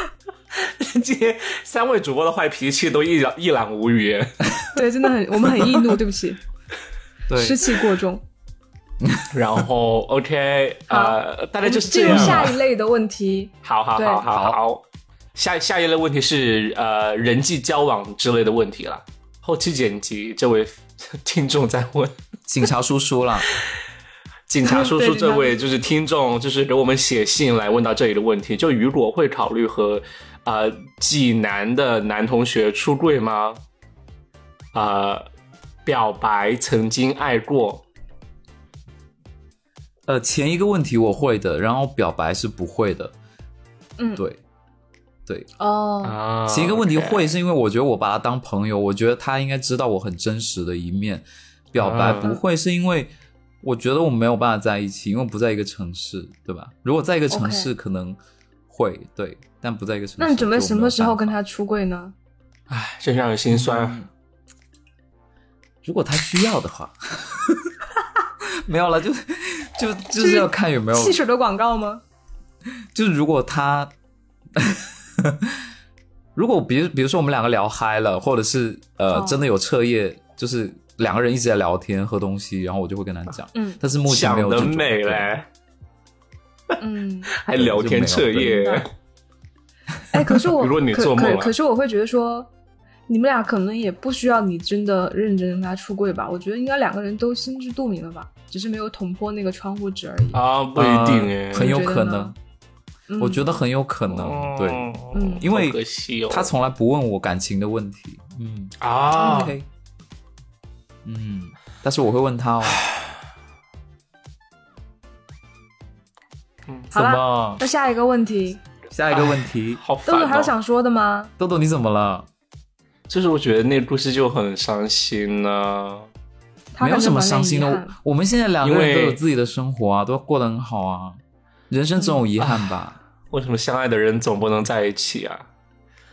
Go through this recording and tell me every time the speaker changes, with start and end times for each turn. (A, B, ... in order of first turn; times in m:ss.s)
0:00.6-0:04.4 A
0:04.8-0:06.4 B
0:07.3-0:07.6 C
0:07.3-0:08.2 B
0:09.3-0:12.5 A
0:10.9-0:14.2 B
0:12.1-0:12.5 C
0:13.6-0:14.8 A
0:14.3-0:14.6 C
0:15.4-0:22.1 A
0:22.5-0:23.5 C
0:24.5-0:33.6 A
0:24.6-0:25.6 B
0:34.7-0:35.3 A
0:35.9-0:37.8 A
0:40.1-0:43.1 C
0:44.0-0:44.2 B
0:45.6-0:46.2 B
0:46.0-0:47.3 A
0:46.5-0:53.1 C
0:51.8-0:52.3 A
0:53.6-0:58.2 C
0:57.3-0:57.7 B
0:58.7-1:01.3 C
1:00.2-1:02.1 B
1:02.7-1:04.0 A
1:03.5-1:04.1 C
1:05.8-1:07.7 C
1:08.6-1:11.2 C
1:10.2-1:12.0 B
1:12.9-1:13.9 C
1:14.6-1:15.6 C
1:16.4-1:25.3 C
1:19.1-1:19.5 B
1:24.1-1:25.4 A
1:26.8-1:27.3 B
1:27.3-1:28.9 A
1:27.5-1:28.8 C
1:28.6-1:28.8 B
1:30.1-1:32.5 B
1:30.5-1:31.5 A
1:33.1-1:40.4 B
1:40.3-1:41.8 A
1:40.8-1:42.4 C
1:41.5-1:42.3 B
1:43.1-1:43.5 B
1:43.2-1:49.7 C
1:44.1-1:46.5 A
1:45.1-1:45.5 B
1:48.8-1:49.6 A
1:49.2-1:49.5 B
1:51.0-1:52.8 C
1:52.7-1:53.0 A
1:56.9-1:57.6 C
1:56.9-1:58.6 B
1:58.9-1:59.8 C
1:59.1-2:00.5 A
2:00.1-2:01.3 B
2:01.4-2:02.3 C
2:03.1-2:06.1 A
2:06.8-2:07.9 B
2:06.8-2:11.2 C
2:08.6-2:09.2 A
2:11.7-2:13.0 C
2:12.4-2:12.8 A
2:13.3-2:15.5 A